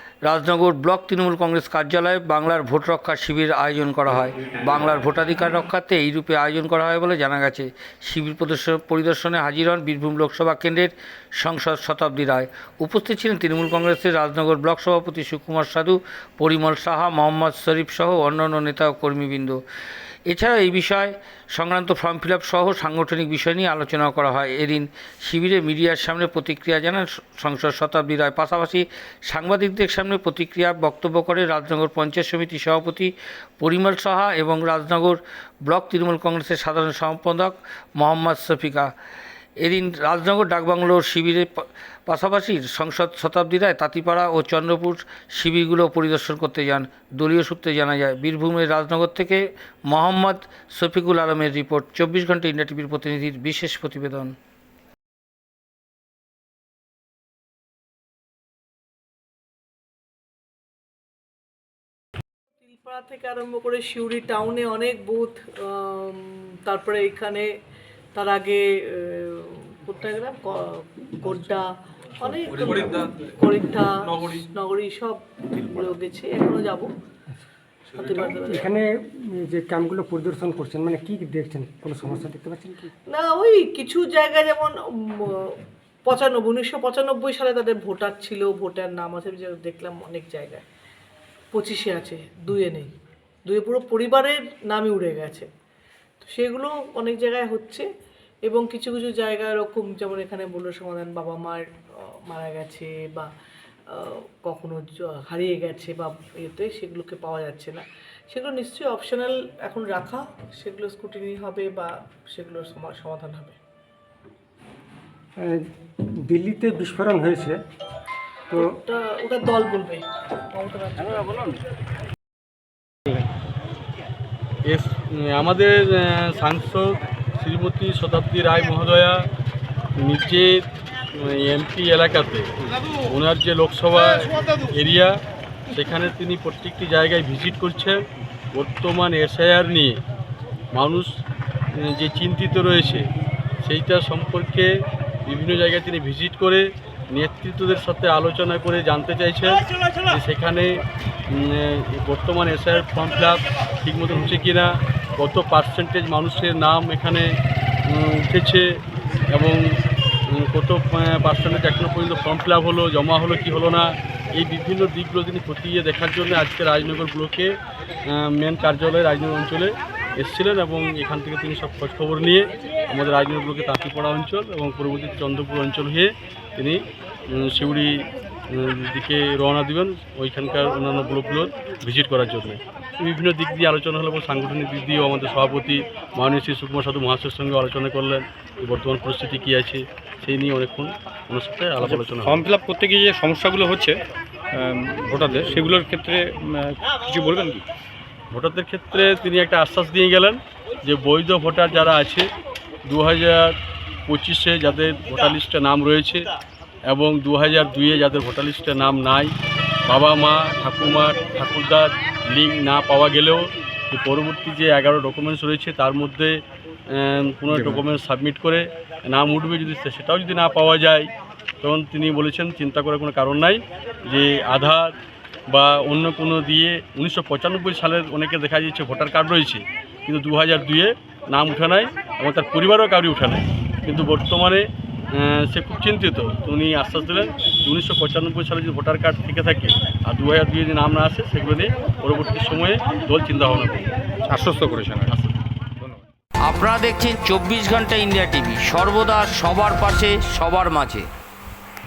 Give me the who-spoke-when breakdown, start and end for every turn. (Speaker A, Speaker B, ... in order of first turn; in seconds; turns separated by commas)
Speaker A: 0.2-19.6, Speaker A: 20.3-38.9, Speaker A: 39.6-54.3, Speaker B: 62.6-67.5, Speaker B: 68.1-76.9, Speaker B: 77.9-78.7, Speaker C: 78.2-82.9, Speaker B: 83.1-90.6, Speaker B: 91.5-92.9, Speaker B: 93.5-95.5, Speaker B: 96.2-97.9, Speaker B: 98.5-103.3, Speaker B: 103.9-113.6, Speaker C: 115.4-115.7, Speaker C: 116.2-117.6, Speaker B: 118.5-121.3, Speaker D: 124.7-129.3, Speaker D: 130.0-132.5, Speaker D: 133.1-135.2, Speaker D: 135.7-138.0, Speaker D: 138.6-140.0, Speaker D: 140.7-141.1, Speaker D: 141.8-143.1, Speaker D: 143.6-144.7, Speaker D: 145.3-157.3, Speaker D: 157.9-158.8, Speaker D: 159.3-159.6, Speaker D: 160.3-192.4, Speaker E: 191.8-194.0, Speaker E: 194.6-197.6, Speaker D: 198.3-202.3, Speaker D: 202.9-203.6, Speaker D: 204.1-206.3, Speaker D: 206.9-209.3, Speaker D: 209.9-221.1, Speaker E: 217.5-217.8, Speaker D: 221.6-224.9, Speaker D: 225.5-243.9, Speaker E: 244.3-245.1, Speaker D: 245.1-245.3, Speaker A: 246.4-251.1